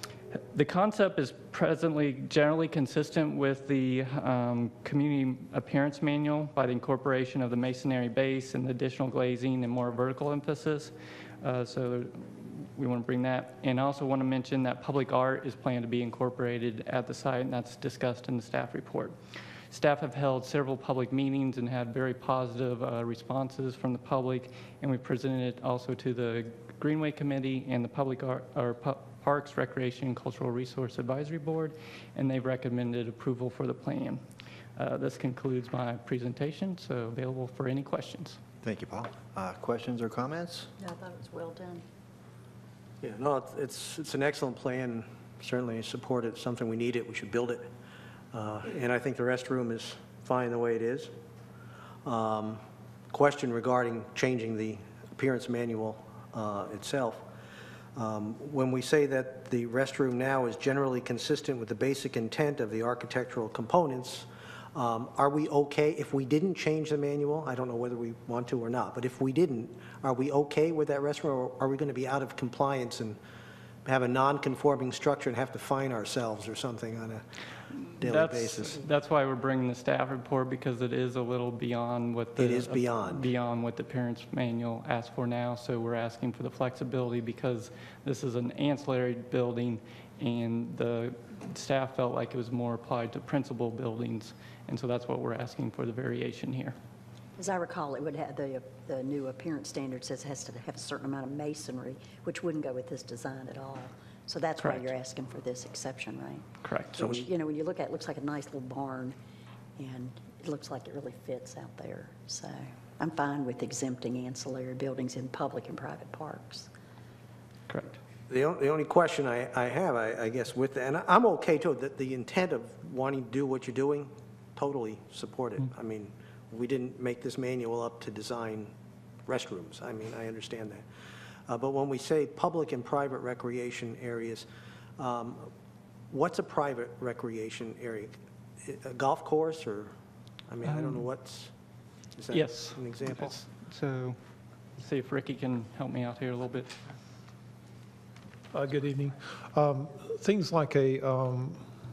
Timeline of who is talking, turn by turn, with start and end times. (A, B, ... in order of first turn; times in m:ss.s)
0:00.5-0:19.2 A
0:19.7-0:34.2 A
0:34.8-0:38.4 A
0:38.6-0:40.7 B
0:40.8-0:41.8 C
0:43.0-0:47.7 D
0:48.3-0:51.1 D
0:52.0-0:57.3 D
0:58.0-1:13.2 D
1:13.9-1:17.2 D
1:17.8-1:36.8 A
1:18.0-1:18.8 D
1:22.4-1:23.3 D
1:37.4-1:49.2 C
1:44.6-1:44.9 A
1:46.6-1:47.0 A
1:49.8-1:56.7 C
1:57.7-1:58.0 A
1:58.3-2:08.7 D
2:09.3-2:10.9 D
2:11.5-2:14.5 D
2:15.0-2:15.5 D
2:16.1-2:19.9 D
2:20.5-2:21.5 D
2:20.6-2:21.1 A
2:22.2-2:23.4 D
2:22.3-2:24.2 A
2:24.8-2:26.8 A
2:28.5-2:31.7 E